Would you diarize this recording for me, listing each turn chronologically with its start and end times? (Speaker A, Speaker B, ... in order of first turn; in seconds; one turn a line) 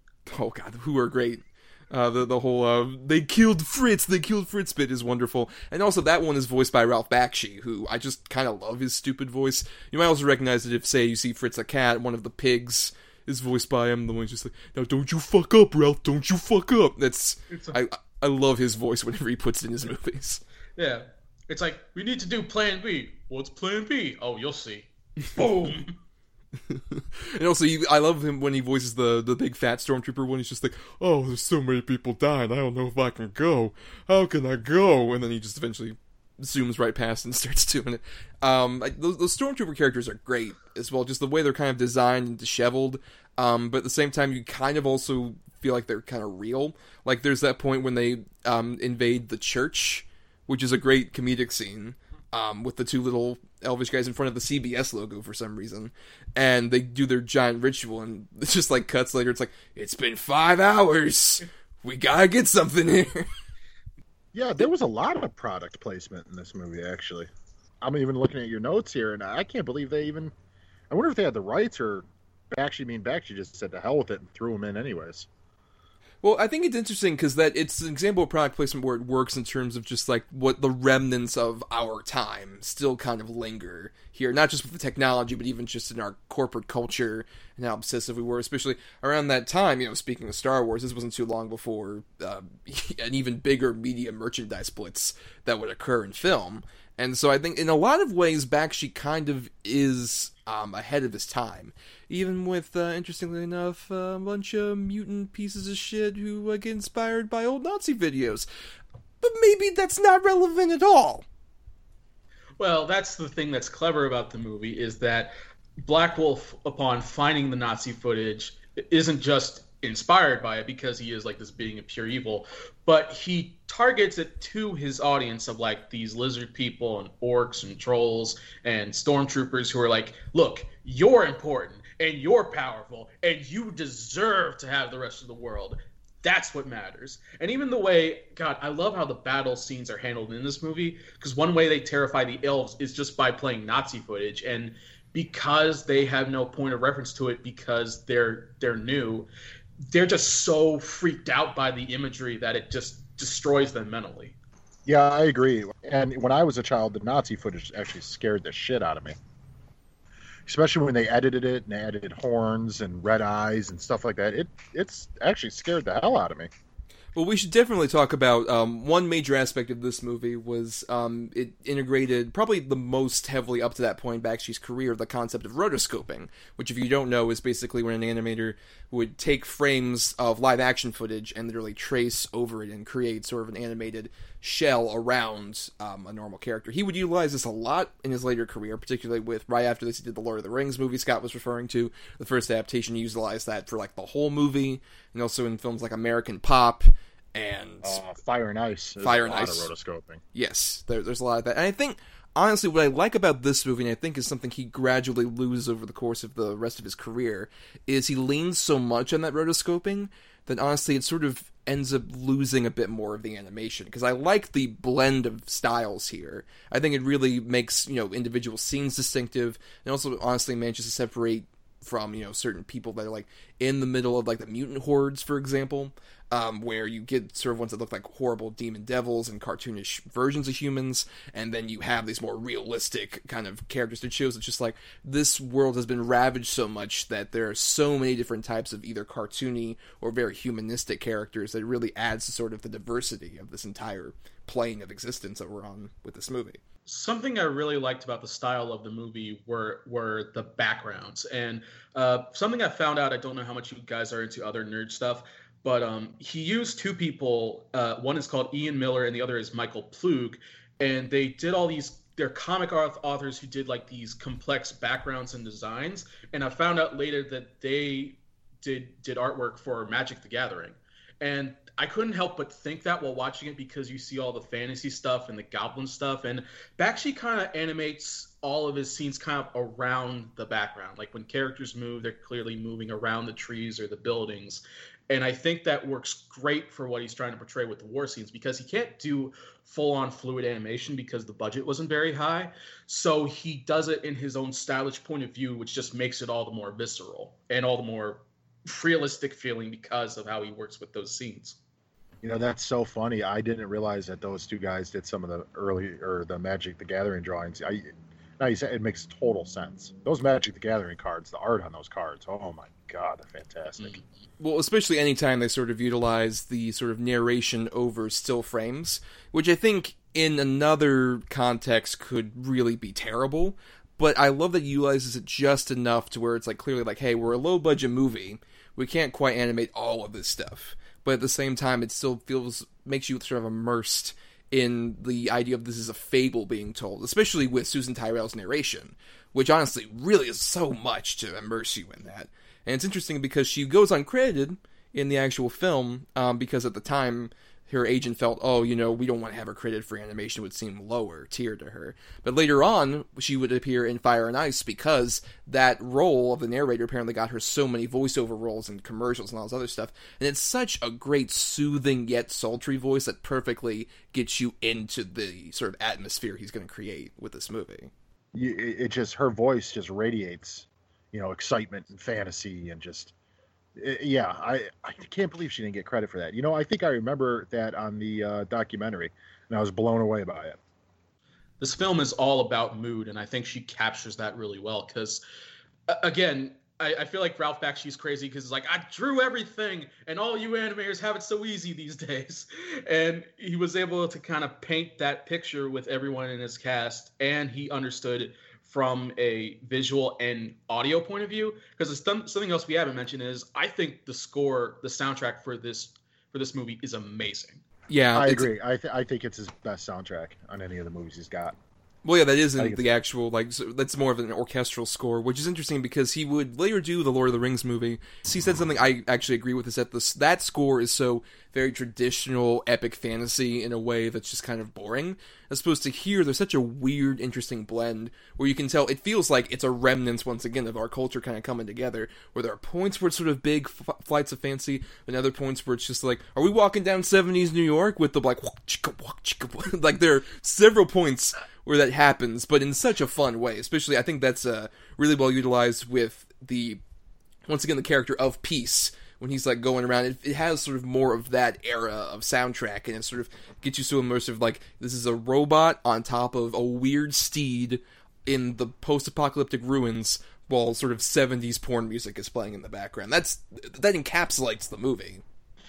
Speaker A: 0.3-20.4
Speaker B: 17.5-17.8
Speaker B: 20.8-25.9
Speaker A: 26.7-63.3
Speaker C: 64.3-67.3
Speaker C: 67.8-70.3
Speaker C: 70.9-75.3
Speaker A: 76.2-108.5
Speaker A: 109.2-111.2
Speaker B: 112.6-115.3
Speaker B: 115.8-149.3
Speaker B: 149.9-154.3
Speaker C: 154.8-159.2
Speaker C: 160.4-166.5
Speaker A: 167.1-198.0
Speaker C: 197.8-200.2
Speaker A: 199.0-199.7
Speaker A: 200.3-246.6
Speaker B: 246.9-301.6
Speaker C: 302.2-314.0
Speaker A: 314.4-367.9
Speaker C: 368.3-373.1
Speaker C: 373.8-380.6
Speaker B: 381.6-385.2
Speaker B: 385.9-407.6
Speaker A: 407.9-408.5
Speaker C: 408.1-411.6
Speaker A: 412.0-446.8
Speaker C: 412.6-412.8
Speaker A: 447.5-465.2